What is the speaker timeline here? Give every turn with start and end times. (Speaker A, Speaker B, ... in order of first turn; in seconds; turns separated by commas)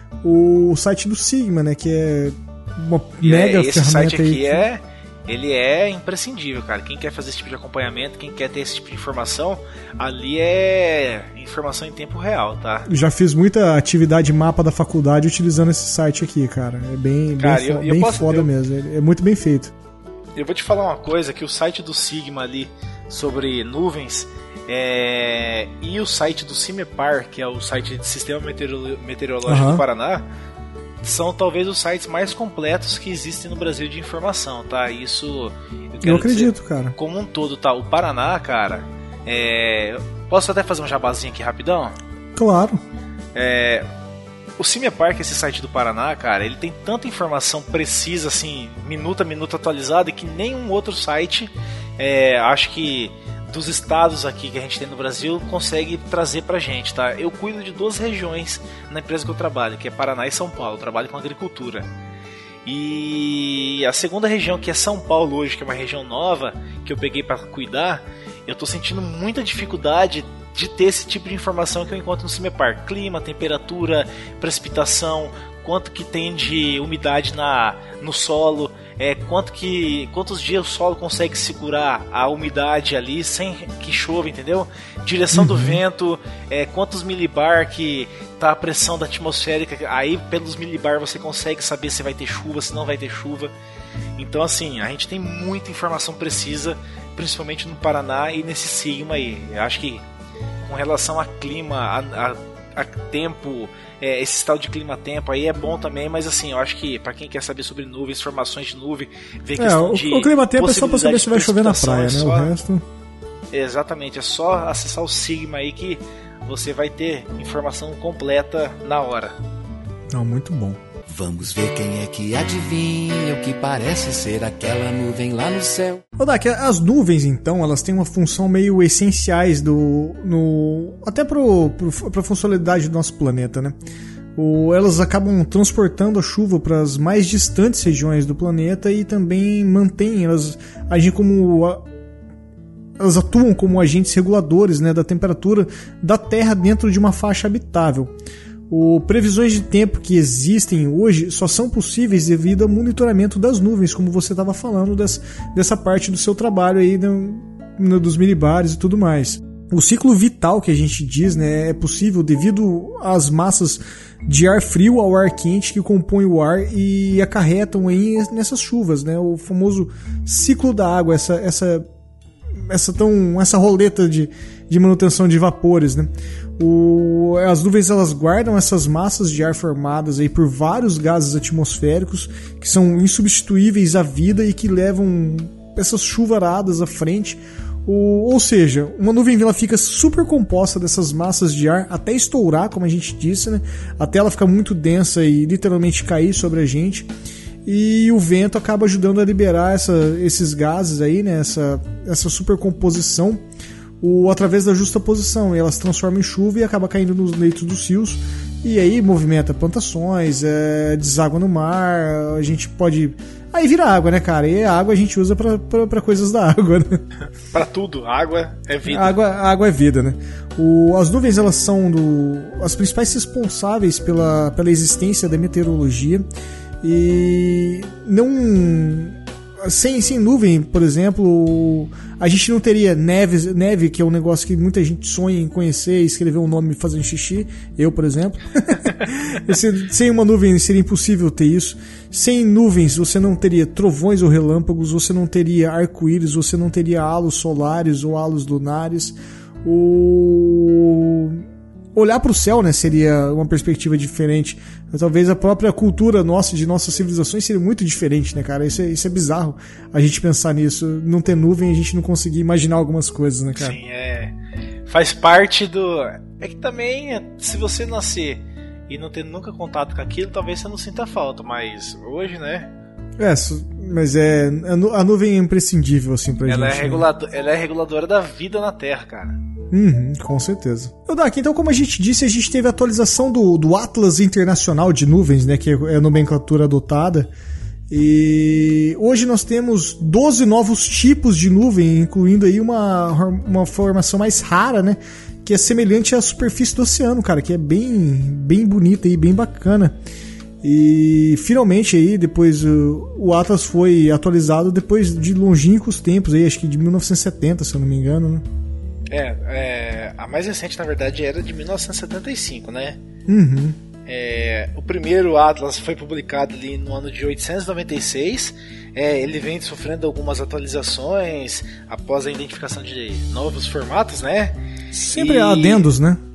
Speaker A: 0.2-4.6, Speaker B: 3.2-12.9, Speaker A: 12.9-19.7, Speaker B: 17.4-18.5, Speaker B: 20.4-30.2, Speaker A: 29.4-29.8, Speaker B: 31.0-41.9, Speaker A: 36.0-36.9, Speaker A: 42.4-42.8, Speaker B: 43.3-43.9, Speaker B: 44.6-61.9, Speaker B: 62.6-93.5, Speaker A: 85.3-85.8, Speaker B: 94.2-100.0, Speaker B: 100.7-112.5, Speaker A: 109.6-112.8, Speaker B: 113.5-119.3, Speaker A: 120.1-120.8, Speaker C: 121.1-126.0, Speaker A: 126.2-133.7, Speaker A: 134.3-141.8, Speaker A: 143.0-148.1, Speaker A: 148.7-171.8, Speaker A: 172.5-197.1, Speaker A: 197.7-203.4, Speaker A: 204.0-217.0, Speaker B: 217.5-219.2, Speaker A: 218.8-226.2, Speaker A: 226.8-263.8, Speaker B: 263.6-264.3, Speaker B: 264.9-272.7, Speaker A: 273.2-277.1, Speaker B: 276.4-279.4, Speaker A: 279.7-287.3, Speaker A: 287.9-299.9, Speaker A: 300.6-308.4, Speaker B: 309.1-313.0, Speaker A: 313.3-313.8, Speaker B: 314.1-324.6, Speaker A: 324.9-326.2, Speaker B: 325.1-325.9